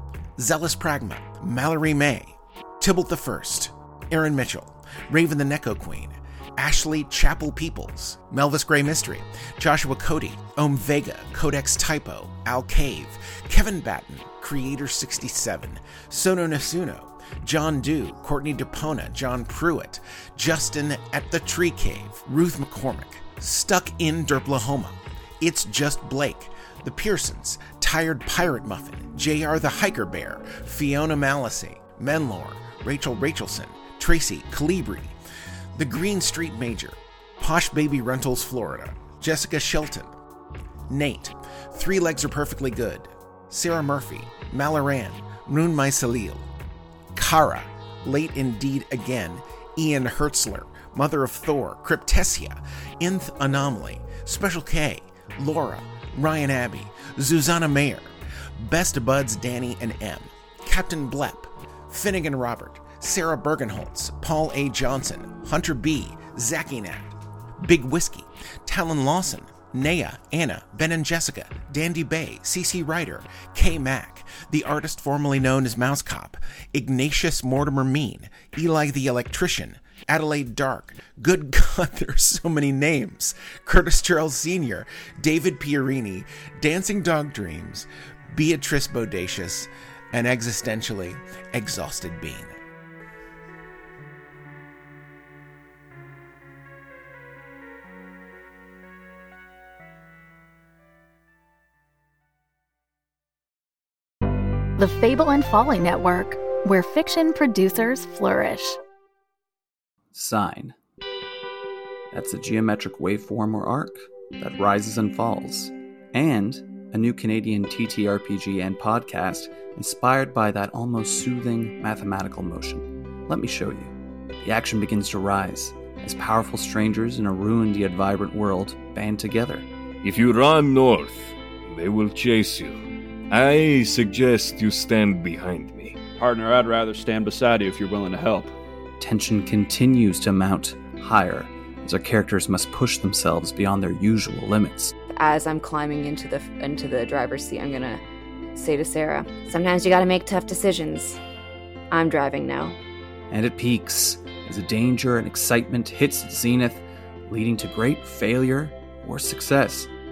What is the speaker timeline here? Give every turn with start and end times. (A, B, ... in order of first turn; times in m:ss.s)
0:00.4-0:35.2 A
0:35.8-0:40.1 A
0:40.9-0:46.5 A
0:47.2-1:32.6 A
1:44.8-1:48.8 B
1:50.1-1:50.8 C
1:52.1-2:09.7 C
2:10.0-2:16.0 D
2:16.2-2:18.5 E
2:19.0-2:25.0 C
2:25.1-2:28.0 F
2:28.6-2:31.2 F
2:31.9-2:32.8 F
2:33.3-2:39.9 C